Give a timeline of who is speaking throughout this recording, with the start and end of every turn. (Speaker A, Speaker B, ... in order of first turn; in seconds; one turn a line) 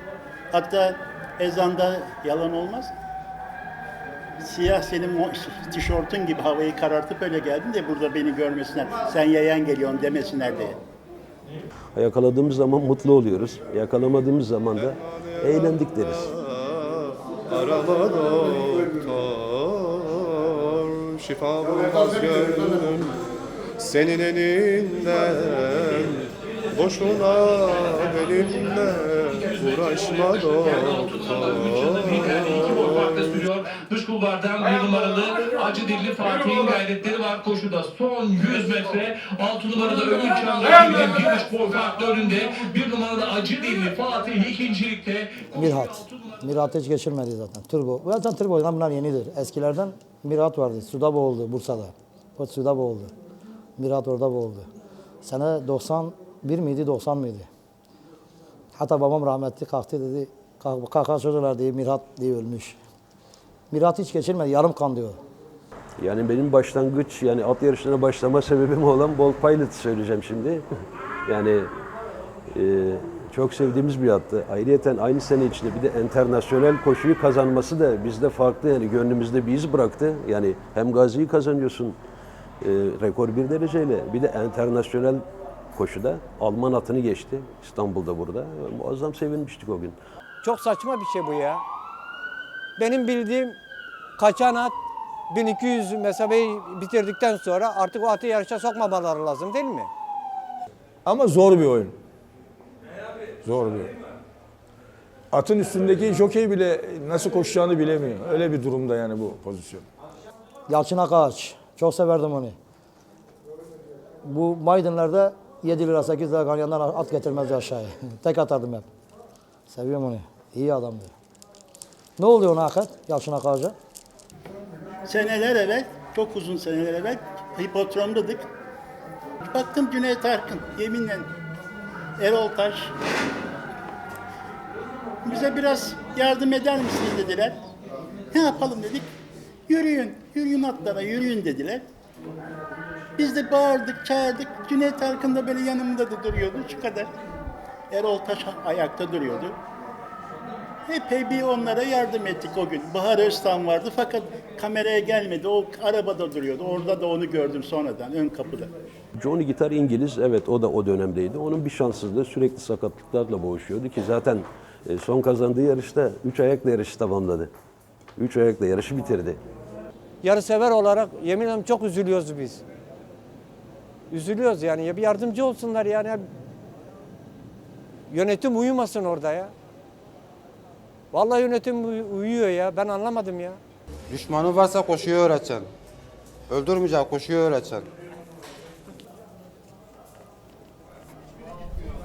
Speaker A: 0.5-2.9
Speaker A: 4.4-10.8
Speaker B: 11.9-16.3
Speaker C: 15.5-23.1
Speaker C: 23.8-33.0
Speaker D: 29.2-46.0
Speaker E: 45.5-53.1
Speaker E: 53.8-54.7
Speaker E: 55.2-57.5
Speaker E: 58.8-62.8
Speaker E: 63.7-65.2
Speaker B: 66.0-70.7
Speaker B: 71.2-71.7
Speaker B: 72.5-82.0
Speaker B: 82.6-85.2
Speaker B: 85.8-90.0
Speaker F: 90.4-91.6
Speaker F: 92.8-93.6
Speaker F: 94.2-94.8
Speaker F: 95.3-99.9
Speaker G: 101.1-102.0
Speaker G: 103.5-103.9
Speaker G: 105.3-109.9
Speaker E: 110.7-112.6
Speaker E: 114.2-118.9
Speaker E: 119.7-121.1
Speaker E: 122.2-123.8
Speaker A: 125.1-128.5
Speaker A: 129.4-131.3
Speaker A: 132.2-132.9
Speaker A: 135.2-137.6
Speaker A: 138.3-139.1
Speaker A: 139.7-141.8
Speaker A: 143.2-147.1
Speaker A: 147.9-149.6
Speaker A: 150.9-158.7
Speaker B: 159.2-167.5
Speaker B: 168.2-169.4
Speaker F: 170.2-172.6
Speaker F: 174.1-176.2
Speaker F: 178.1-179.5
Speaker F: 181.1-183.6
Speaker H: 184.1-185.7
Speaker H: 186.5-187.9